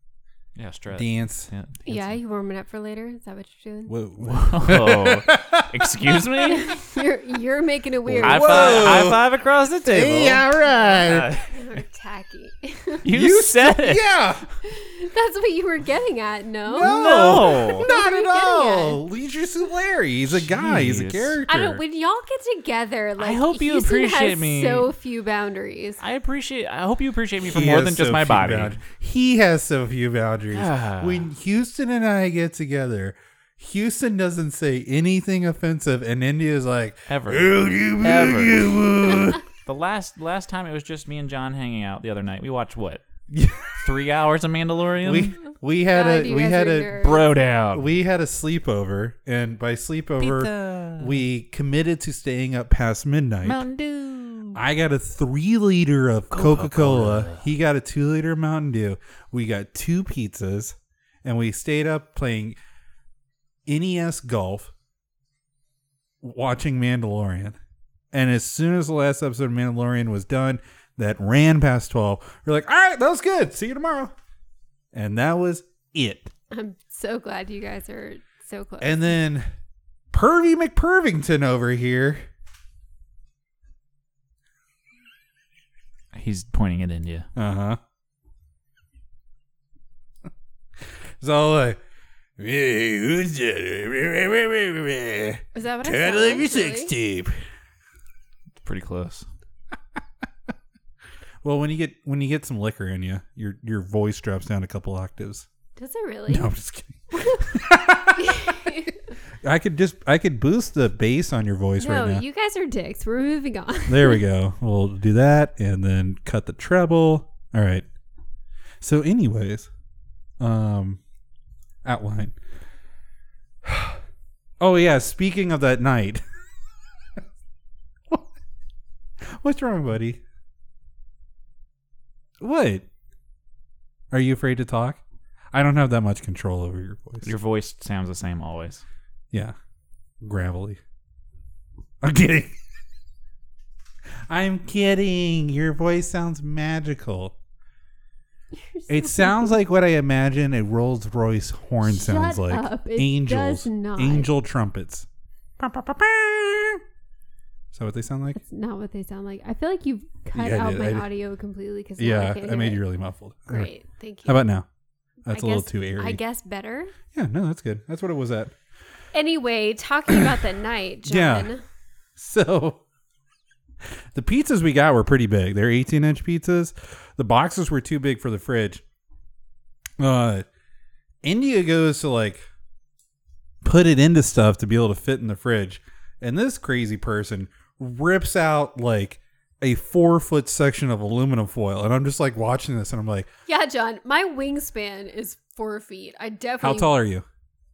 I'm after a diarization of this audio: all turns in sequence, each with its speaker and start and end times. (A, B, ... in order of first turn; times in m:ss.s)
0:00.6-0:02.1 A
0:00.9-0:01.5 B
0:01.9-0:04.0 C
0:03.9-0:06.7 B
0:04.2-0:06.8 A
0:06.4-0:09.1 C
0:08.0-0:09.2 B
0:08.2-0:11.6 A
0:09.9-0:11.3 B
0:11.5-0:13.1 C
0:13.0-0:14.1 A
0:13.1-0:14.4 B
0:14.6-0:19.0 C
0:16.7-0:21.8 B
0:16.8-0:17.9 A
0:20.3-0:21.4 A
0:21.5-0:26.0 C
0:23.2-0:24.9 A
0:26.0-0:28.8 A
0:27.4-0:39.4 B
0:30.5-0:31.3 A
0:37.1-0:43.0 A
0:43.3-0:43.9 B
0:43.8-0:45.4 A
0:45.0-0:47.1 B
0:45.9-0:47.3 C
0:47.0-0:47.9 A
0:47.7-0:53.6 B
0:50.2-0:51.2 A
0:53.4-0:54.6 A
0:54.5-1:02.6 B
0:56.3-0:57.4 A
1:03.7-1:04.7 B
1:06.2-1:07.6 B
1:08.1-1:14.1 B
1:14.9-1:16.3 B
1:16.5-1:19.2 C
1:18.8-1:19.5 B
1:20.1-1:22.3 B
1:26.1-1:27.3 A
1:27.4-1:27.8 B
1:31.2-1:31.8 B
1:32.4-1:37.4 B
1:35.6-1:36.9 C
1:38.6-1:39.3 A
1:41.4-1:45.5 B
1:45.8-1:46.5 C
1:46.3-1:48.9 B
1:47.1-1:49.0 C
1:49.4-1:52.2 B
1:51.8-1:54.2 C
1:53.9-1:57.9 B
1:58.8-1:59.7 B
2:00.4-2:01.0 B
2:01.8-2:02.4 B
2:03.6-2:04.0 B
2:04.6-2:06.2 B
2:09.2-2:10.2 B
2:12.4-2:12.9 B
2:14.1-2:15.0 B
2:15.5-2:17.3 B
2:17.2-2:18.8 A
2:20.2-2:20.8 B
2:22.0-2:22.6 B
2:24.3-2:27.4 B
2:28.5-2:29.6 C
2:28.9-2:35.1 B
2:31.8-2:34.3 C
2:35.6-2:36.8 B
2:37.7-2:38.4 B
2:38.3-2:42.8 C
2:40.3-2:41.1 B
2:42.0-2:43.7 B
2:43.5-2:44.5 C
2:44.3-2:44.7 B
2:45.3-2:46.2 B
2:45.3-2:46.9 C
2:47.1-2:48.5 B
2:49.1-2:51.6 C
2:51.1-2:51.5 B
2:52.2-2:52.8 B
2:54.1-2:58.8 B
3:00.0-3:00.5 B
3:01.2-3:02.5 B
3:03.6-3:13.3 B
3:13.5-3:17.0 C
3:16.6-3:17.3 B